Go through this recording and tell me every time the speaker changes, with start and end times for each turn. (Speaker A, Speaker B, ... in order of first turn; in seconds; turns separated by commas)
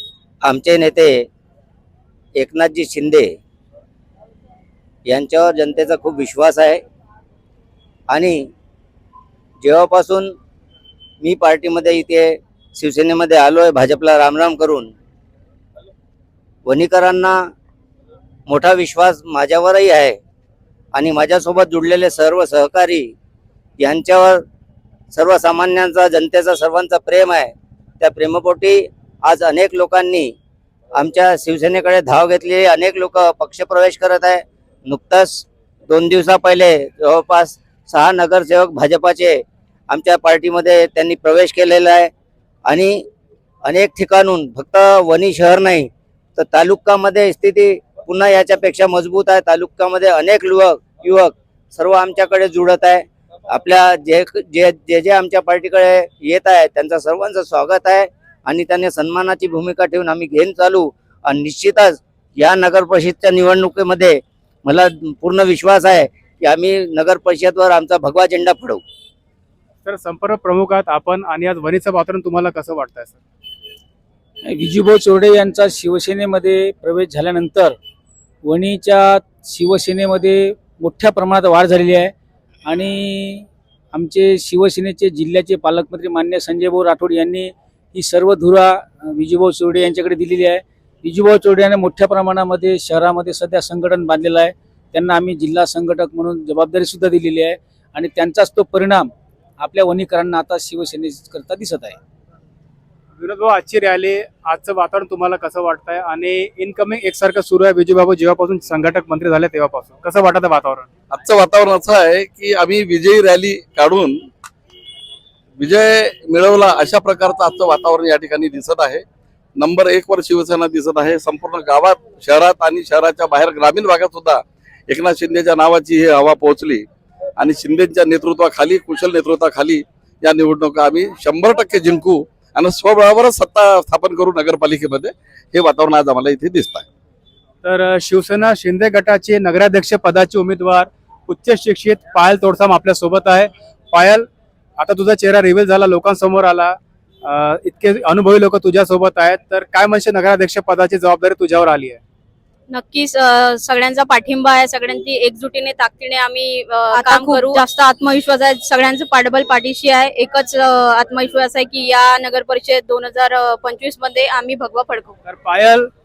Speaker A: 0.4-1.3, Speaker A: 2.4-3.4, Speaker A: 5.1-6.8, Speaker A: 8.1-8.5, Speaker A: 9.6-10.3, Speaker A: 11.2-14.9, Speaker A: 16.6-17.5, Speaker A: 18.5-20.2, Speaker A: 20.9-23.1, Speaker A: 23.8-24.4, Speaker A: 25.1-30.3, Speaker A: 30.9-42.1, Speaker A: 42.7-43.0, Speaker A: 43.6-68.8, Speaker B: 69.8-73.2, Speaker C: 74.5-77.8, Speaker C: 78.4-82.1, Speaker C: 82.7-102.0, Speaker B: 103.2-110.9, Speaker D: 111.1-114.2, Speaker D: 115.6-119.0, Speaker D: 119.6-126.8, Speaker D: 127.4-136.8, Speaker B: 137.6-144.3, Speaker B: 144.8-152.0, Speaker E: 152.7-165.1, Speaker B: 165.3-165.9